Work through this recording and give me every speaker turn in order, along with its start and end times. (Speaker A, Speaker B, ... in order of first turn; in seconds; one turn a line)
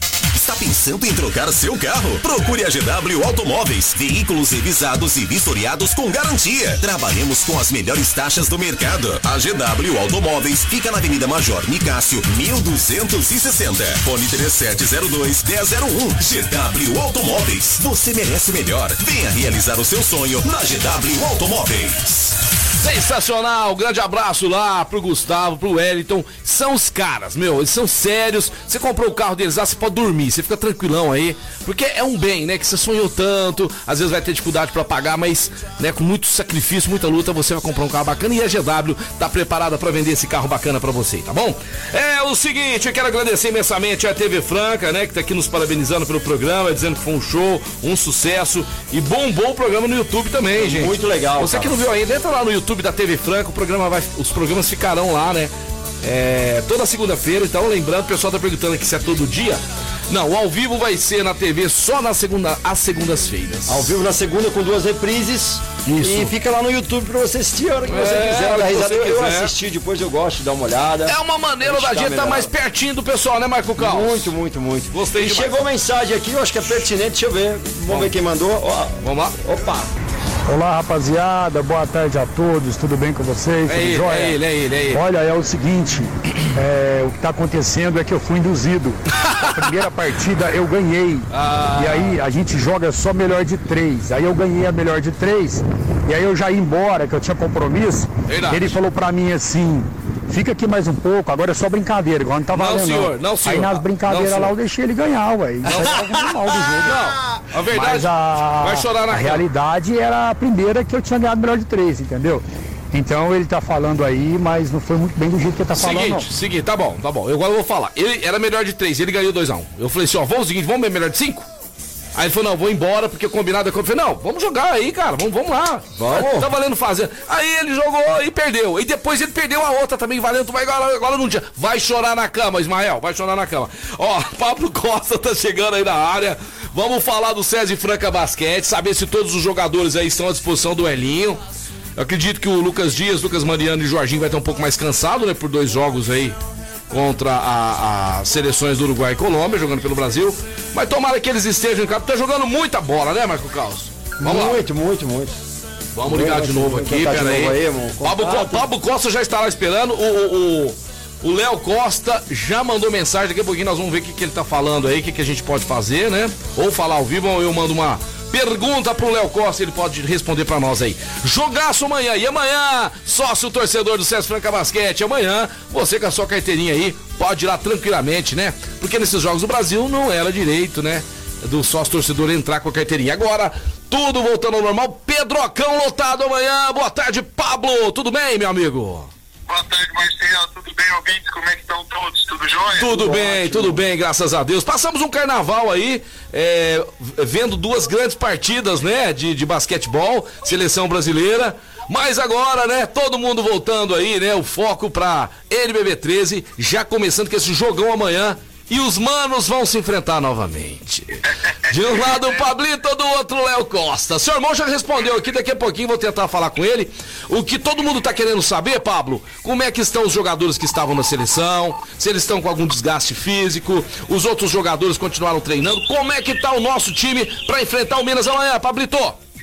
Speaker A: 0.3-22.4
Speaker B: 22.8-55.5
Speaker C: 50.6-51.8
Speaker B: 56.0-63.9
Speaker C: 63.7-72.5
Speaker B: 65.8-66.3
Speaker B: 67.8-69.5
Speaker B: 71.1-74.3
Speaker C: 73.8-79.9
Speaker B: 74.9-75.7
Speaker B: 79.0-79.4
Speaker D: 80.5-84.4
Speaker B: 83.7-85.0
Speaker D: 84.9-107.0
Speaker B: 91.3-92.2
Speaker B: 98.3-98.8
Speaker B: 102.5-104.5
Speaker B: 105.7-106.0
Speaker B: 106.8-109.4
Speaker D: 107.7-116.3
Speaker B: 115.8-121.5
Speaker B: 122.2-141.4
Speaker C: 126.0-126.5
Speaker B: 142.0-146.4
Speaker B: 146.9-154.6
Speaker C: 154.2-155.4
Speaker B: 155.9-189.1
Speaker C: 156.1-158.7
Speaker E: 189.5-193.0
Speaker B: 192.7-229.2
Speaker C: 192.9-193.8